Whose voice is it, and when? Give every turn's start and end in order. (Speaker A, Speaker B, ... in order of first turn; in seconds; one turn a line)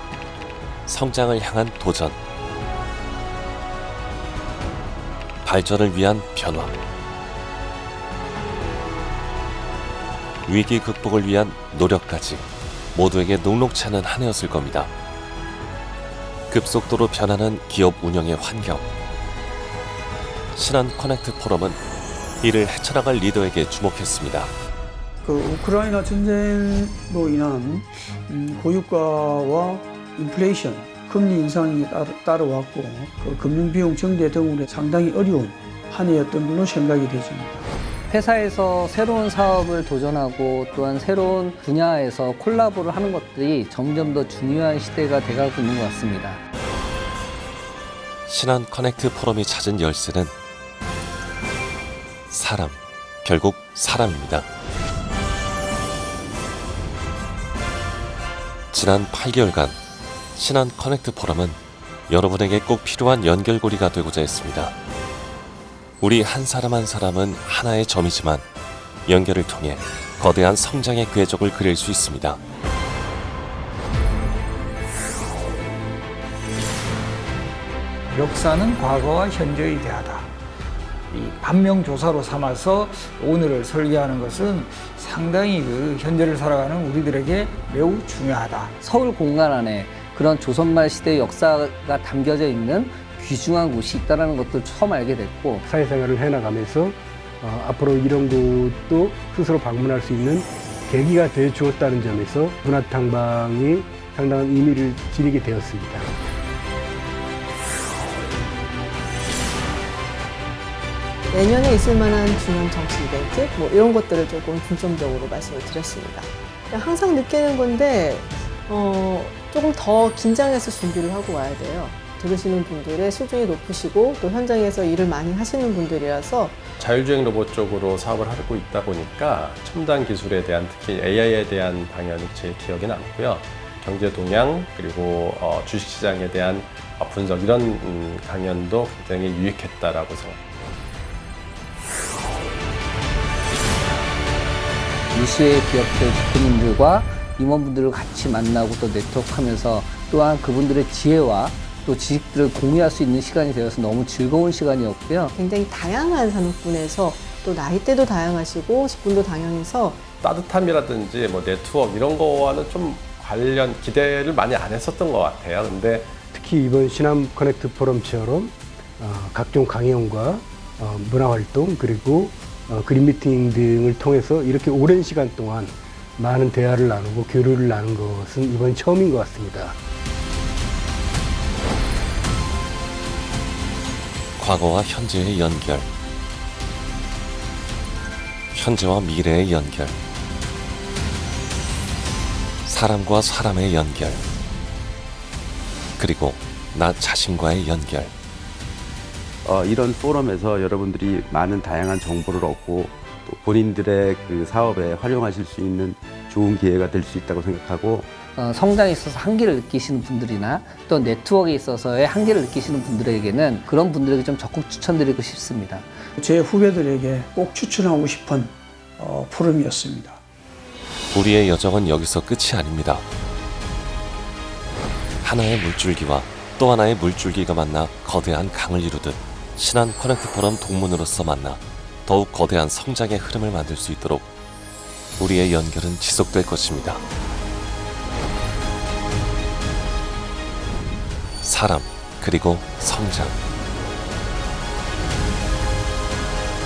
Speaker A: 0.9-2.2
Speaker A: 5.5-6.8
Speaker A: 10.5-14.9
Speaker A: 16.5-18.9
Speaker A: 20.6-21.8
Speaker A: 22.4-24.5
Speaker B: 25.2-37.7
Speaker C: 38.1-46.4
Speaker A: 48.3-50.3
Speaker A: 52.3-54.5
Speaker A: 58.7-59.8
Speaker A: 60.4-64.8
Speaker A: 66.0-68.5
Speaker A: 69.1-72.4
Speaker D: 78.1-80.3
Speaker D: 81.1-88.7
Speaker C: 88.8-95.6
Speaker E: 95.6-106.1
Speaker F: 111.3-126.6
Speaker G: 126.8-140.4
Speaker C: 145.1-155.3
Speaker F: 155.3-160.1
Speaker G: 160.2-166.2
Speaker E: 166.3-179.8
Speaker A: 184.4-185.9
Speaker A: 188.5-190.0
Speaker A: 192.7-194.2
Speaker A: 196.0-198.1
Speaker H: 199.4-208.1
Speaker C: 208.4-215.9
Speaker B: 216.2-220.2
Speaker A: 221.1-223.0
Speaker A: 225.2-234.3
Speaker A: 235.2-237.0
Speaker A: 241.4-243.4